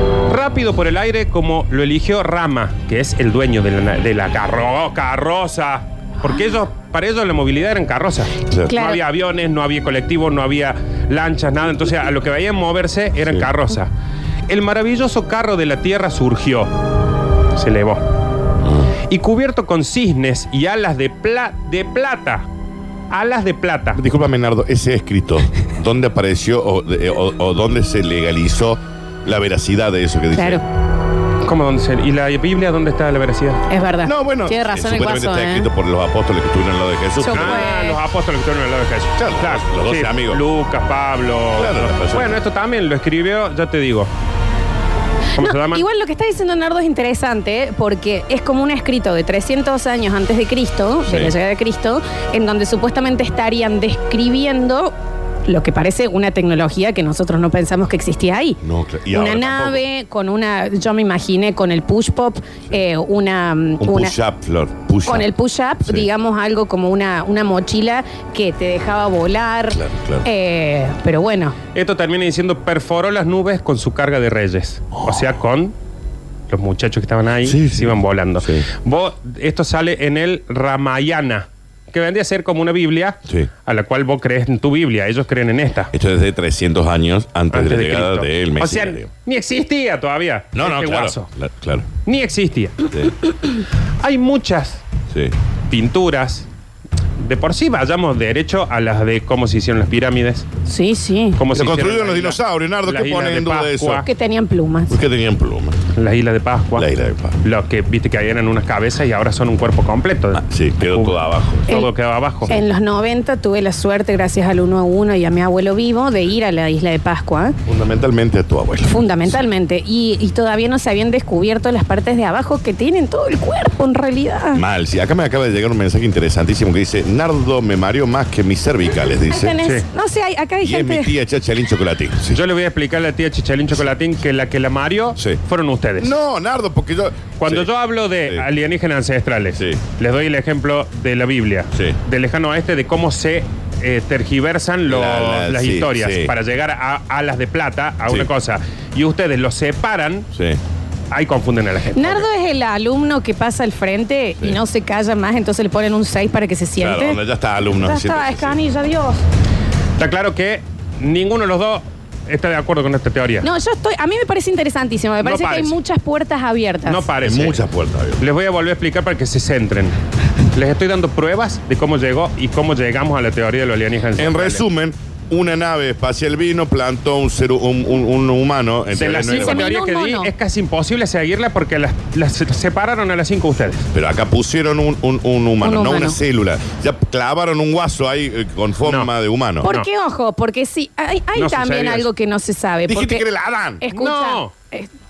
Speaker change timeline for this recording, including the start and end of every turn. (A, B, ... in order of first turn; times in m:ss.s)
0:00.3-0:13.9 A
0:08.5-0:08.8 B
0:08.7-0:09.0 C
0:14.5-0:16.7 A
0:17.6-0:18.0 A
0:18.6-0:18.9 B
0:19.1-0:22.5 A
0:23.1-0:24.0 A
0:24.0-0:30.6 B
0:30.4-0:30.6 C
0:31.4-0:33.6 A
0:33.7-0:35.7 C
0:34.0-0:37.7 B
0:37.2-0:38.0 C
0:37.3-0:44.1 A
0:39.2-0:40.4 B
0:41.6-0:42.4 B
0:45.4-0:54.9 C
0:45.4-0:45.8 A
0:51.1-0:51.4 B
0:55.5-0:58.6 C
0:58.6-0:59.8 B
0:59.1-1:04.1 C
1:03.8-1:05.3 B
1:05.1-1:11.6 C
1:09.7-1:10.3 B
1:11.8-1:15.8 A
1:15.0-1:15.3 B
1:16.5-1:25.9 A
1:17.4-1:18.7 B
1:25.9-1:29.1 B
1:27.5-1:31.3 A
1:30.6-1:31.9 B
1:32.0-1:32.8 A
1:34.0-1:34.8 A
1:35.7-1:36.5 A
1:37.2-1:40.5 A
1:40.7-1:41.4 C
1:41.4-1:44.1 A
1:41.5-1:44.1 B
1:44.0-1:44.9 C
1:44.9-1:45.8 B
1:46.0-1:46.9 A
1:46.8-1:47.4 B
1:47.4-1:52.5 A
1:50.3-1:51.7 B
1:52.5-1:57.6 C
1:57.7-1:59.1 B
1:58.9-2:04.6 C
2:04.5-2:09.6 B
2:09.3-2:11.1 C
2:10.6-2:12.4 B
2:12.3-2:16.1 A
2:15.2-2:15.4 B
2:16.0-2:17.7 B
2:17.4-2:30.3 A
2:19.6-2:19.8 B
2:24.9-2:26.3 B
2:30.3-2:30.6 B
2:31.1-2:32.3 A
2:32.0-2:37.2 C
2:36.8-2:38.6 B
2:37.7-2:39.2 C
2:40.0-2:43.5 A
2:43.4-2:47.0 C
2:45.2-2:45.8 A
2:46.9-2:47.6 A
2:47.2-2:48.2 B
2:48.2-2:50.0 A
2:50.6-2:54.6 A
2:54.2-2:59.7 B
2:58.9-3:03.9 A
2:59.3-3:00.3 C
3:03.9-3:09.7 B
3:05.6-3:06.2 C
3:08.8-3:09.1 A
3:09.6-3:13.3 C
3:11.4-3:12.1 A
3:12.9-3:13.8 B
3:13.8-3:14.9 C
3:13.9-3:14.5 A